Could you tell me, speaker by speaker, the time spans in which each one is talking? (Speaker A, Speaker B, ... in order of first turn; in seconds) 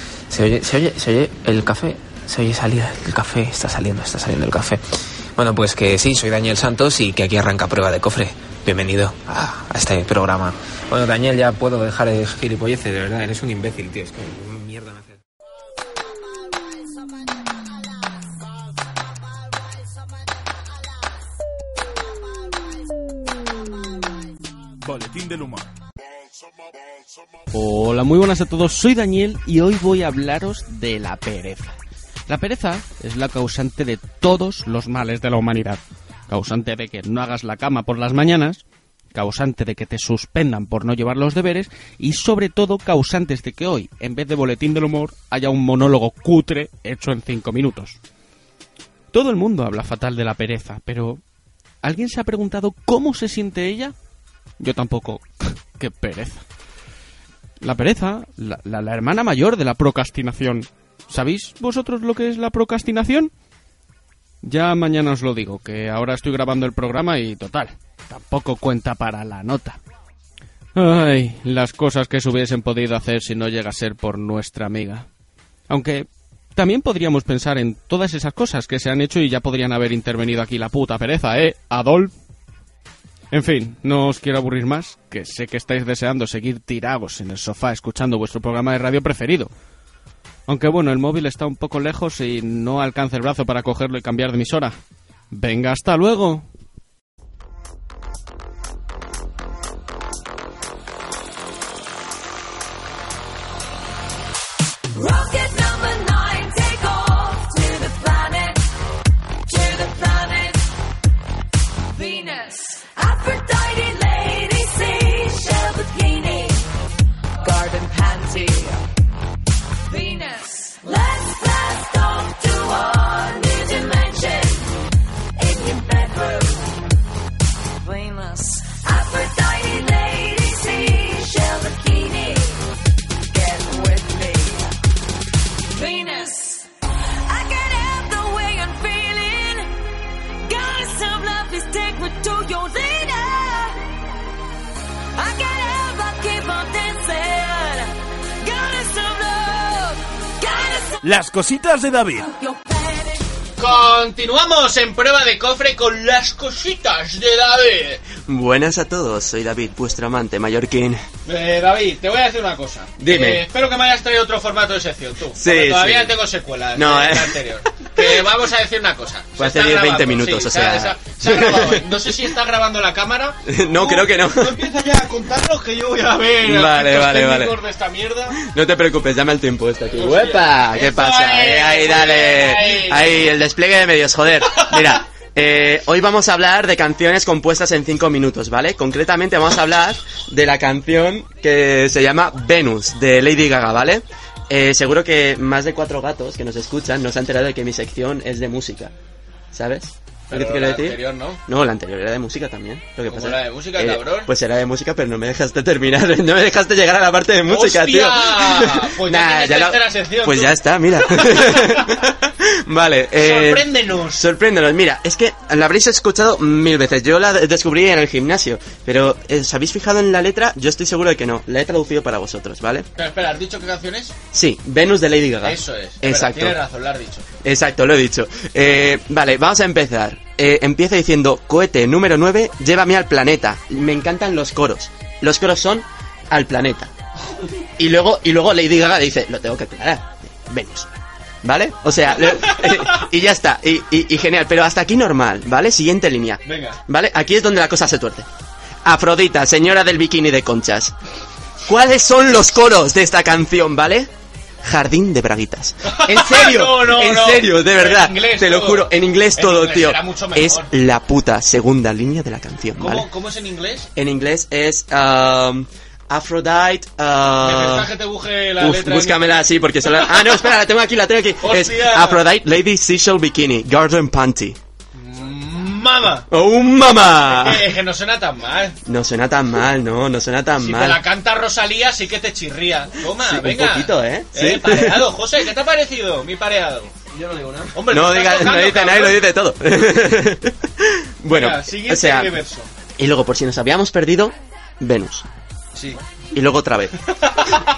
Speaker A: 0.3-4.8, 5.4-15.2
Speaker B: 24.8-25.7, 151.0-152.3
Speaker C: 27.5-31.8, 32.3-38.6, 39.1-48.0, 49.1-51.2, 51.8-54.0, 54.6-56.5, 57.6-63.3, 64.4-69.8, 70.8-75.1, 75.7-82.1, 83.3-89.5, 90.5-94.8, 95.3-96.5
Speaker D: 105.0-108.7, 109.5-110.7, 111.9-116.7, 117.4-118.8, 119.8-124.7, 125.4-126.8, 127.8-132.6, 133.3-134.7, 135.7-136.7, 137.3-139.7, 140.4-143.8, 145.2-151.0, 152.3-153.2
Speaker E: 153.6-158.0, 161.3-178.4, 180.0-183.3, 184.5-185.0, 200.3-201.4, 203.1-204.3, 207.5-212.0, 213.2-214.3, 223.0-224.2, 225.4-227.2, 242.3-243.0, 246.4-246.8, 255.8-260.7, 262.8-263.9, 267.4-270.4, 271.4-272.2, 275.0-276.3, 277.3-278.8, 280.6-289.2, 291.3-292.7
Speaker F: 158.3-161.0, 163.0-163.5, 165.3-166.2, 166.7-167.4, 169.4-172.3, 173.5-174.6, 176.4-177.6, 178.4-198.9, 199.5-222.9, 224.3-226.6, 227.4-236.9, 237.8-240.9, 241.4-248.3, 248.8-250.9, 251.7-254.1, 254.6-263.1, 264.0-267.9, 268.6-274.6, 276.3-277.7, 278.9-281.0, 283.2-285.2, 287.9-292.4, 293.0-295.3, 296.3-297.5